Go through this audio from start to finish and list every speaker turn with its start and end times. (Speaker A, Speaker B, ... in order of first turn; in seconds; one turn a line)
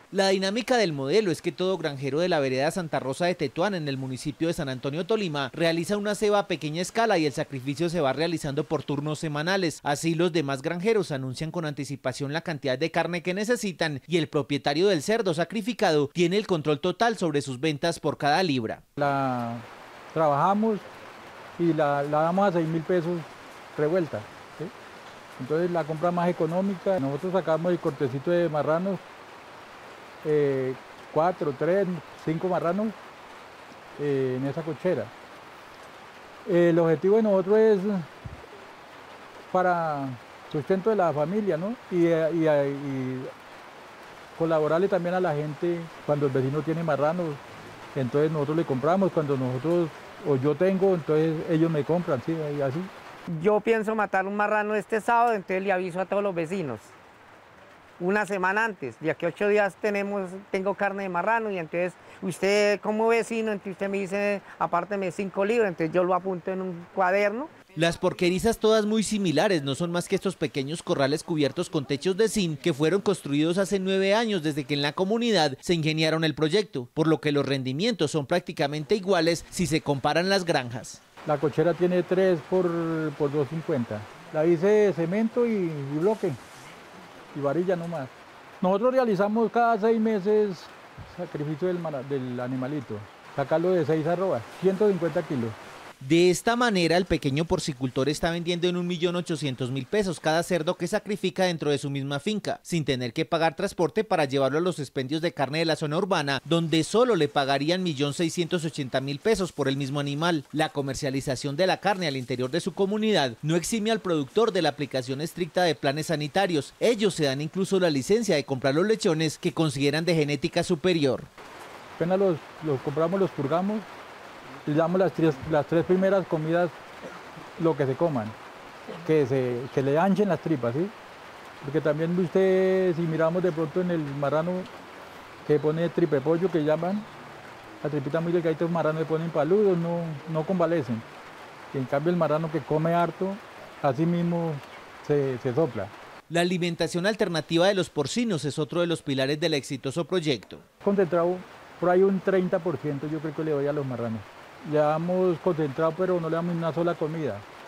Speaker A: 0.1-18.8
Speaker B: 19.0-20.8
Speaker B: 21.6-24.7
Speaker B: 25.4-29.0
Speaker B: 30.2-33.0
Speaker B: 34.0-35.1
Speaker B: 36.5-38.1
Speaker B: 39.5-43.3
Speaker B: 44.4-47.4
Speaker B: 47.9-52.9
Speaker C: 53.3-56.9
Speaker C: 58.0-67.5
Speaker A: 67.7-81.0
Speaker B: 81.2-86.4
Speaker B: 87.3-95.5
Speaker A: 96.0-121.3
Speaker B: 122.0-123.9
Speaker B: 124.6-126.8
Speaker B: 127.6-128.3
Speaker B: 129.0-130.9
Speaker B: 131.6-134.7
Speaker B: 135.4-137.1
Speaker B: 137.8-141.0
Speaker B: 141.7-145.9
Speaker A: 146.3-150.6
Speaker B: 150.8-157.4